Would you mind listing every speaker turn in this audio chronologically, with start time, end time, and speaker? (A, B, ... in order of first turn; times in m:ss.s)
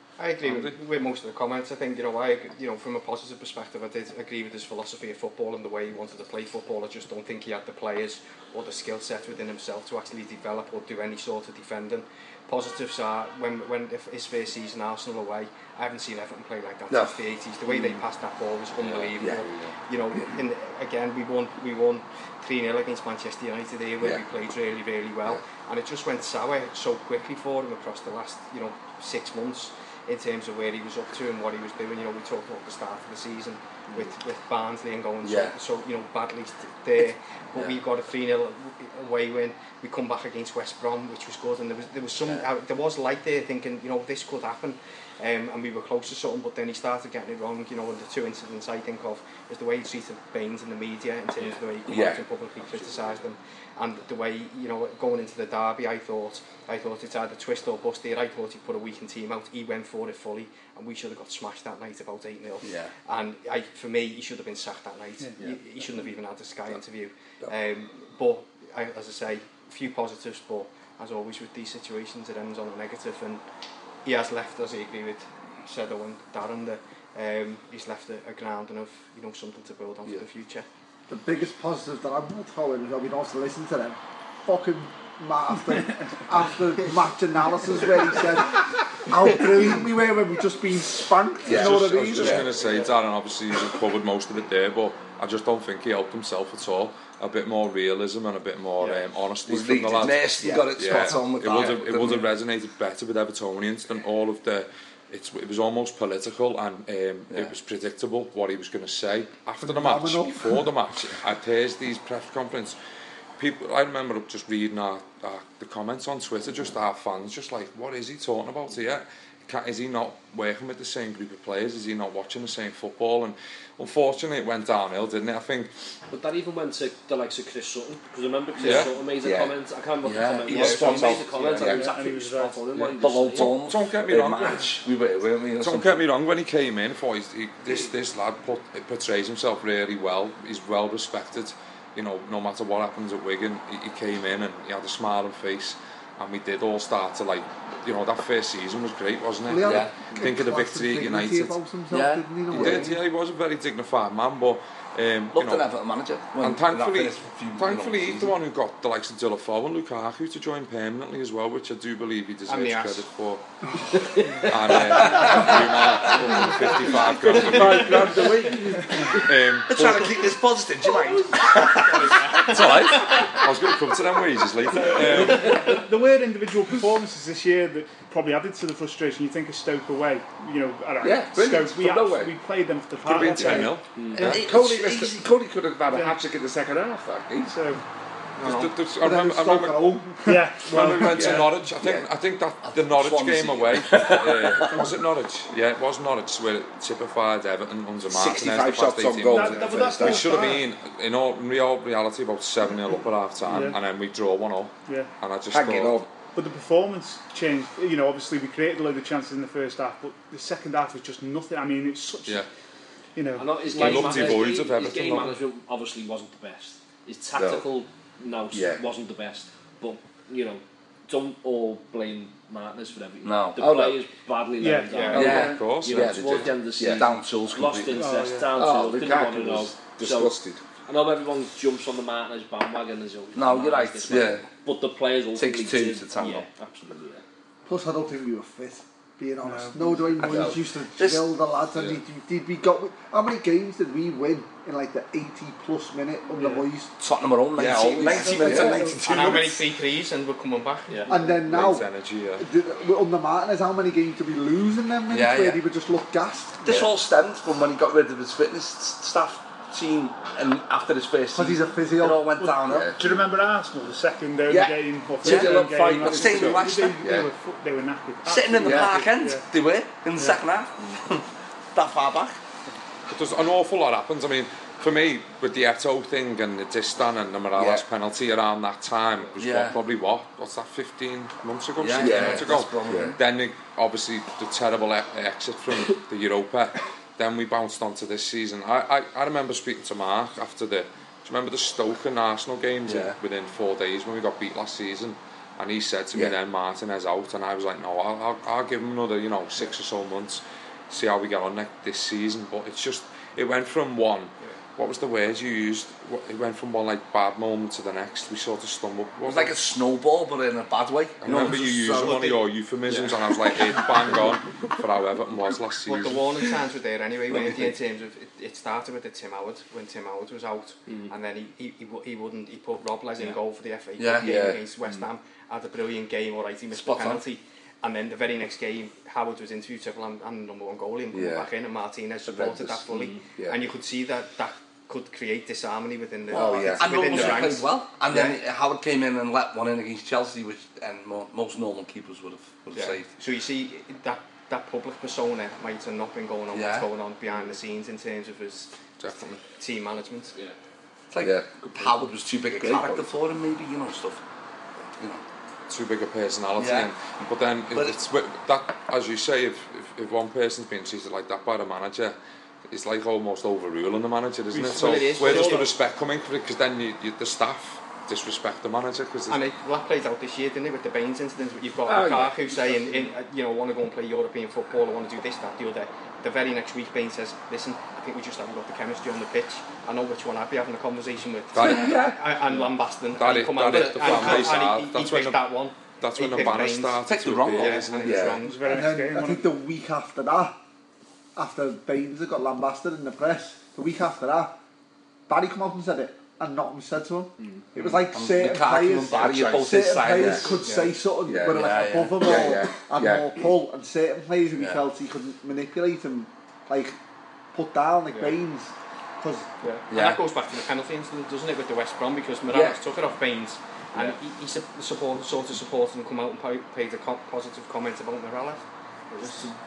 0:00.2-1:13.4 A
0:00.4-0:00.8 B
0:35.2-0:35.6 C
0:51.9-0:52.2 D
1:02.6-1:02.9 C
1:14.0-1:20.6 A
1:21.1-1:32.5 E
1:31.4-1:52.8 B
1:31.5-1:32.4 C
1:39.4-1:42.3 C
1:49.6-1:50.6 E
1:53.4-2:05.7 B
2:06.1-2:13.6 F
2:08.6-2:08.9 A
2:08.6-2:08.9 B
2:09.2-2:11.9 C
2:10.5-2:11.2 A
2:11.6-2:12.6 G
2:12.8-2:16.0 C
2:13.4-2:14.7 B
2:15.6-2:31.6 B
2:29.5-2:33.0 E
2:29.6-2:29.9 C
2:31.9-2:32.8 C
2:32.5-2:35.6 B
2:35.3-2:38.3 C
2:36.4-2:43.4 B
2:42.5-2:43.0 A
2:44.4-2:48.2 B
2:45.0-2:45.5 C
2:47.5-2:48.5 D
2:47.5-2:52.7 C
2:49.1-2:50.1 B
2:51.5-2:53.3 A
2:52.4-2:55.7 B
2:54.9-3:04.4 G
3:01.0-3:02.3 D
3:03.0-3:03.8 B
3:04.0-3:04.3 F
3:04.2-3:05.2 C
3:04.2-3:07.5 D
3:07.5-3:07.8 G
3:08.4-3:10.0 B
3:09.0-3:10.4 E
3:10.2-3:11.3 G
3:10.7-3:26.0 B
3:11.1-3:11.5 D
3:12.6-3:14.9 C
3:18.1-3:20.3 D
3:19.3-3:20.6 G
3:19.7-3:20.0 C
3:23.5-3:23.8 G
3:25.5-3:26.1 D
3:26.3-3:32.4 G
3:33.2-3:34.4 G
3:33.4-3:57.2 F
3:33.7-3:35.4 B
3:38.5-3:38.8 D
3:43.2-3:44.0 C
3:44.6-3:45.6 G
3:44.9-3:45.4 A
3:45.1-3:46.5 B
3:45.1-3:48.0 C
3:45.9-3:47.0 D
3:47.9-3:48.5 G
3:48.6-3:50.6 D
3:53.3-3:54.5 C
3:55.4-3:56.5 C
3:57.6-4:06.9 E
3:59.4-4:00.2 G
4:00.2-4:01.3 C
4:06.4-4:06.6 G
4:07.0-4:09.6 C
4:07.6-4:09.1 D
4:07.9-4:09.3 E
4:08.4-4:11.2 A
4:10.9-4:11.1 F
4:11.1-4:11.9 E
4:11.4-4:12.4 B
4:12.4-4:16.8 E
4:15.1-4:15.6 C
4:16.6-4:23.0 C
4:21.3-4:22.8 E
4:22.4-4:29.4 G
4:24.5-4:27.3 C
4:25.2-4:27.2 D
4:28.2-4:31.2 C
4:28.6-4:28.9 D
4:31.7-4:32.4 C
4:33.1-5:09.5 B
4:39.4-4:39.8 C
4:41.8-4:43.2 C
4:42.0-4:43.2 D
4:52.8-4:53.1 C
5:09.2-5:12.3 C
5:11.2-5:16.3 B
5:12.9-5:13.1 A
5:15.8-5:38.4 A
5:17.3-5:17.7 C
5:24.0-5:24.6 C
5:24.2-5:24.6 D
5:26.7-5:27.2 C
5:31.1-5:31.4 D
5:32.2-5:33.5 D
5:36.3-5:37.6 D
5:36.3-5:43.1 C
5:42.7-5:50.3 A
5:46.5-5:46.9 C
5:51.1-5:54.2 C
5:52.6-5:53.0 D
5:55.7-6:02.2 B
5:56.6-5:56.9 C
6:02.7-6:09.4 B
6:04.5-6:05.7 G
6:04.7-6:05.7 A
6:09.3-6:28.9 A
6:11.8-6:12.7 D
6:21.5-6:22.0 B
6:21.6-6:22.1 C
6:23.2-6:25.5 B
6:26.0-6:28.4 B
6:27.0-6:28.2 C
6:28.1-6:28.3 D
6:28.4-6:29.5 G
6:28.6-6:30.6 E
6:31.4-6:34.6 E
6:35.3-6:47.0 E
6:38.1-6:40.5 C
6:40.6-6:41.0 A
6:41.3-6:42.8 C
6:42.1-6:43.2 D
6:47.5-6:49.5 E
6:48.1-6:48.4 A
6:49.6-6:59.3 A
6:49.9-6:50.2 C
6:52.5-6:52.8 C